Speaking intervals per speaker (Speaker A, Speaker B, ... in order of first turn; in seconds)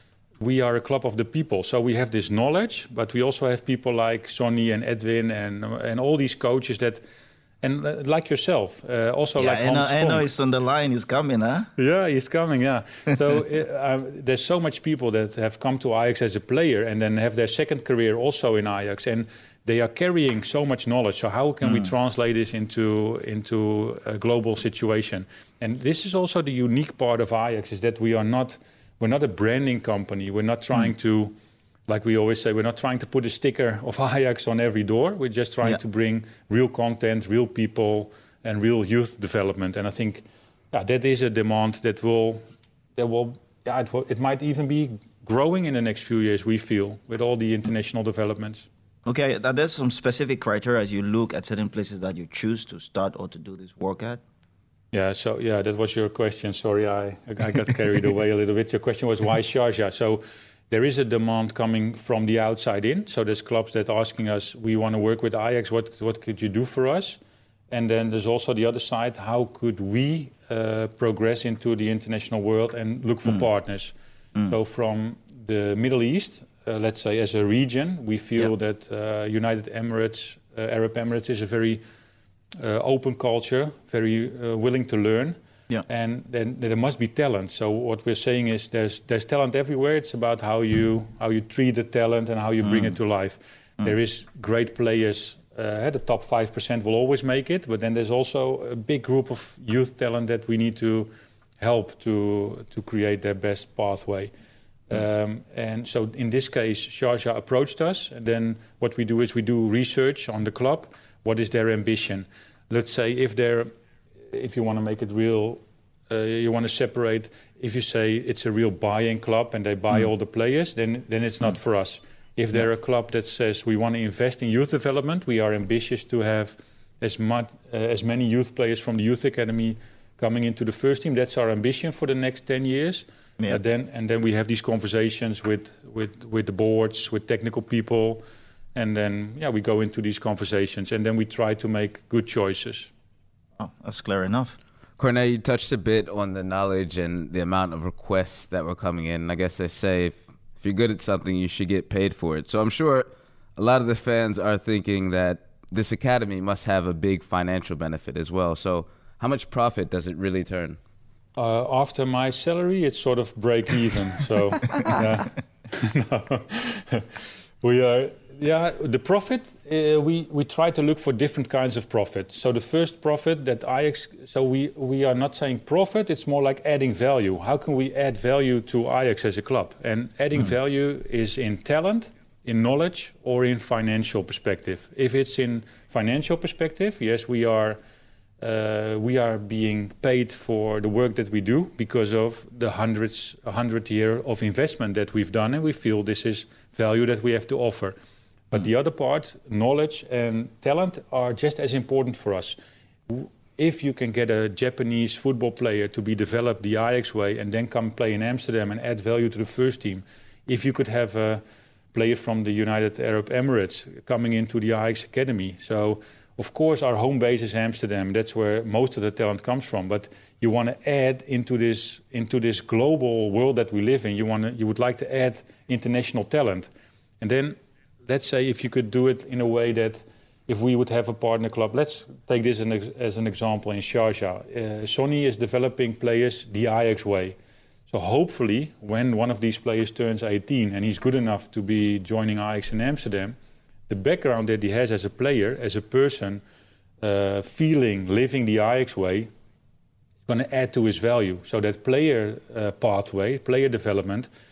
Speaker A: 0.4-7.0, 7.6-10.2, 11.8-31.3, 31.9-42.4, 43.0-48.7, 54.9-67.2, 67.7-74.0, 74.5-81.8, 82.6-104.3, 104.9-113.7, 114.3-138.2, 138.7-142.9, 161.3-167.0, 167.6-187.8, 188.4-198.0, 198.5-202.6, 203.1-211.4, 211.9-226.7, 227.2-237.3, 237.9-243.4, 243.9-246.4, 247.0-249.3, 250.2-254.3
Speaker B: 9.4-11.7, 49.0-54.2, 92.6-92.9, 143.6-144.6
Speaker C: 145.0-160.8